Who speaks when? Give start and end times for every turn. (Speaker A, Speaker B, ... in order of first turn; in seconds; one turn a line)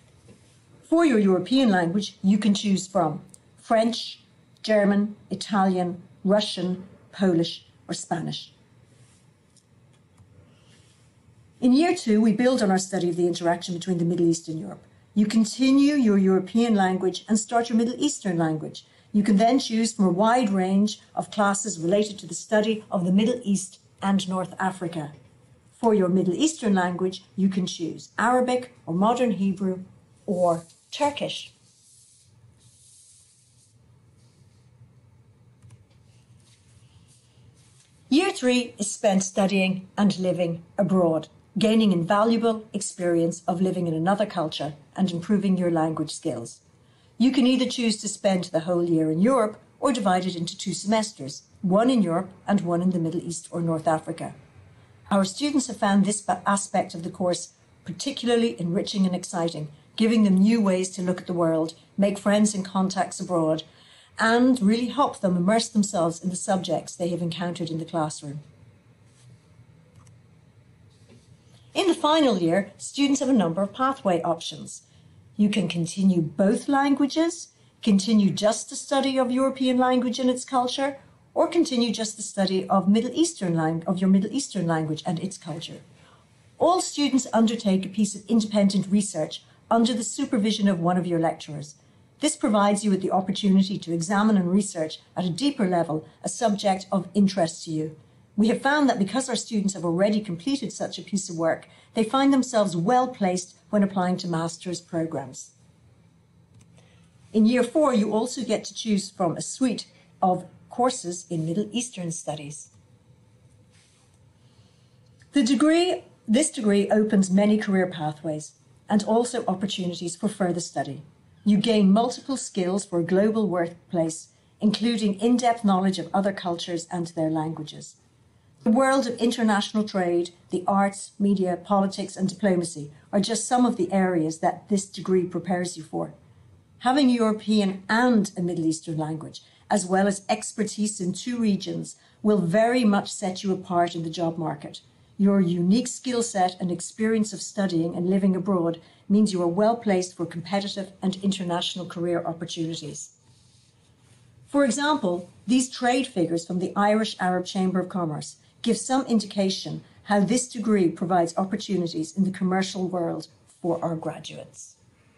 Speaker A: 0.9-8.5
Speaker A: 11.6-25.1
Speaker A: 25.7-31.5
Speaker A: 38.1-46.6
Speaker A: 47.2-54.3
Speaker A: 55.1-63.6
Speaker A: 64.2-68.4
Speaker A: 71.8-74.8
Speaker A: 75.4-85.8
Speaker A: 86.6-105.5
Speaker A: 107.3-112.7
Speaker A: 115.3-128.0
Speaker A: 128.6-136.1
Speaker A: 136.8-153.1
Speaker A: 154.5-164.8